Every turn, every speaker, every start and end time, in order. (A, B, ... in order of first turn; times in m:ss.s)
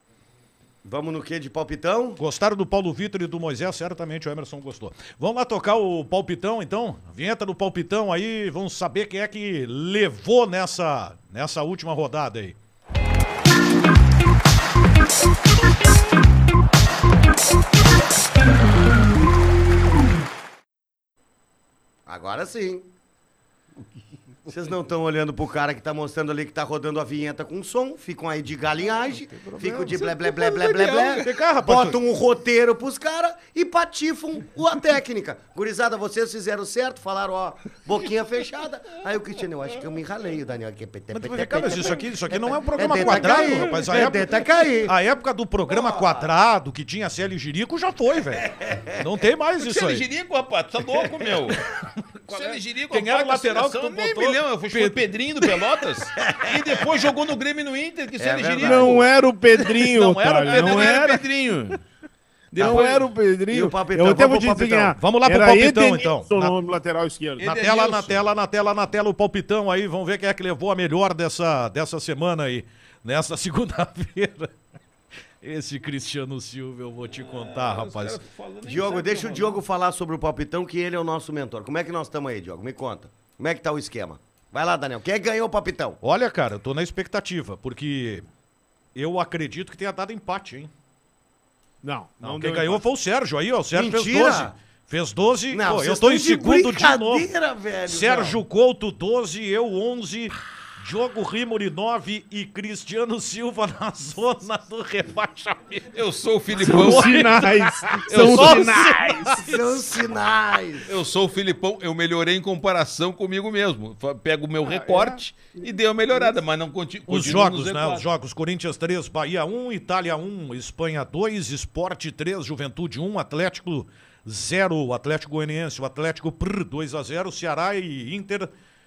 0:00.8-0:02.2 A
0:02.2-0:12.6 B
0:22.1-0:22.9 A
0:24.5-0:44.9 A
0:29.5-0:31.3 C
0:31.2-0:32.0 B
0:41.1-0:50.0 B
0:45.7-0:46.3 A
0:48.6-0:49.0 A
0:49.6-0:51.6 C
0:51.9-0:55.6 B
0:52.3-0:59.1 C
0:56.2-0:56.6 A
0:58.2-0:59.1 A
0:58.6-1:01.2 D
0:59.7-1:01.1 B
1:00.5-1:01.8 C
1:02.5-1:03.1 C
1:02.6-1:07.5 D
1:03.5-1:05.0 A
1:05.0-1:06.6 B
1:07.4-1:08.2 C
1:07.4-1:14.5 B
1:15.4-1:18.2 B
1:17.1-1:19.6 C
1:18.6-1:26.0 A
1:26.0-1:28.3 B
1:29.0-1:30.7 B
1:31.8-1:32.8 D
1:32.2-1:37.3 B
1:33.7-1:34.6 A
1:35.5-1:38.4 A
1:37.9-1:46.0 B
1:45.9-1:47.2 C
1:46.6-1:49.5 D
1:46.6-1:49.8 B
1:48.1-1:48.9 C
1:49.4-1:51.0 A
1:50.8-1:58.1 C
1:54.6-1:55.6 D
1:57.1-2:08.5 B